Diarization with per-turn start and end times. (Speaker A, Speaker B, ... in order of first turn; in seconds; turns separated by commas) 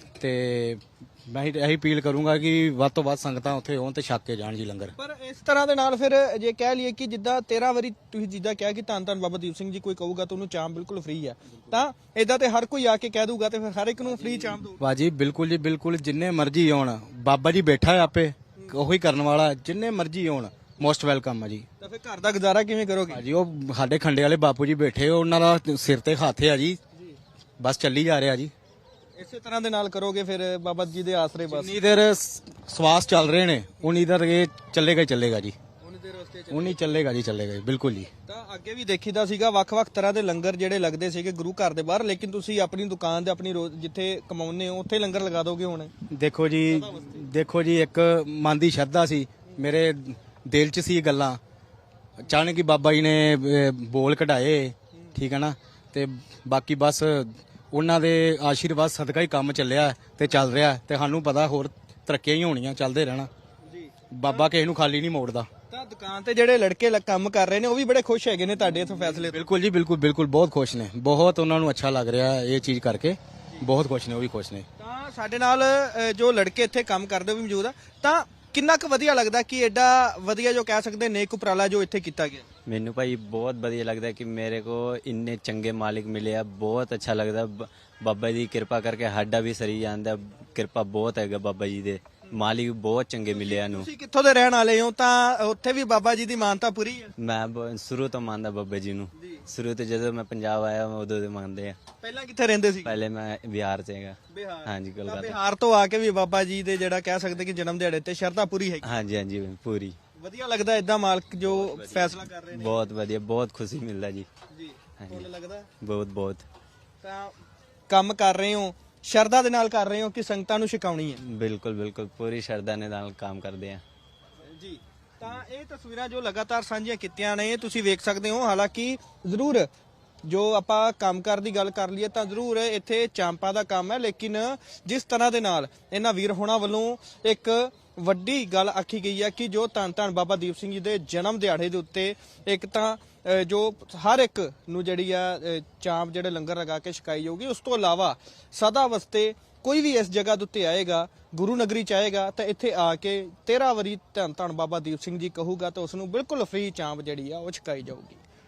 Speaker A: 0.2-4.9, Speaker B: 5.0-14.8, Speaker A: 14.8-21.7, Speaker B: 21.8-23.2, Speaker A: 23.1-26.8, Speaker A: 27.6-28.5, Speaker B: 29.2-31.8, Speaker A: 31.5-35.5, Speaker B: 35.8-37.0, Speaker A: 36.5-38.1, Speaker B: 38.3-45.9, Speaker A: 46.1-51.4, Speaker B: 46.7-47.2, Speaker A: 52.2-63.3, Speaker B: 63.7-64.5, Speaker A: 64.1-65.5, Speaker B: 65.7-69.5, Speaker A: 69.3-74.7, Speaker B: 74.8-82.5, Speaker C: 82.7-93.9, Speaker B: 93.3-97.1, Speaker C: 97.2-101.8, Speaker B: 99.2-99.4, Speaker B: 102.0-103.0, Speaker C: 102.8-105.4, Speaker B: 104.3-108.9, Speaker C: 108.8-110.0, Speaker B: 110.2-112.8, Speaker C: 111.4-114.3, Speaker B: 114.5-115.7, Speaker C: 115.0-115.3, Speaker C: 115.8-116.4, Speaker B: 117.0-117.3, Speaker B: 117.9-121.2, Speaker C: 121.2-123.8, Speaker B: 124.5-129.7, Speaker B: 130.3-158.2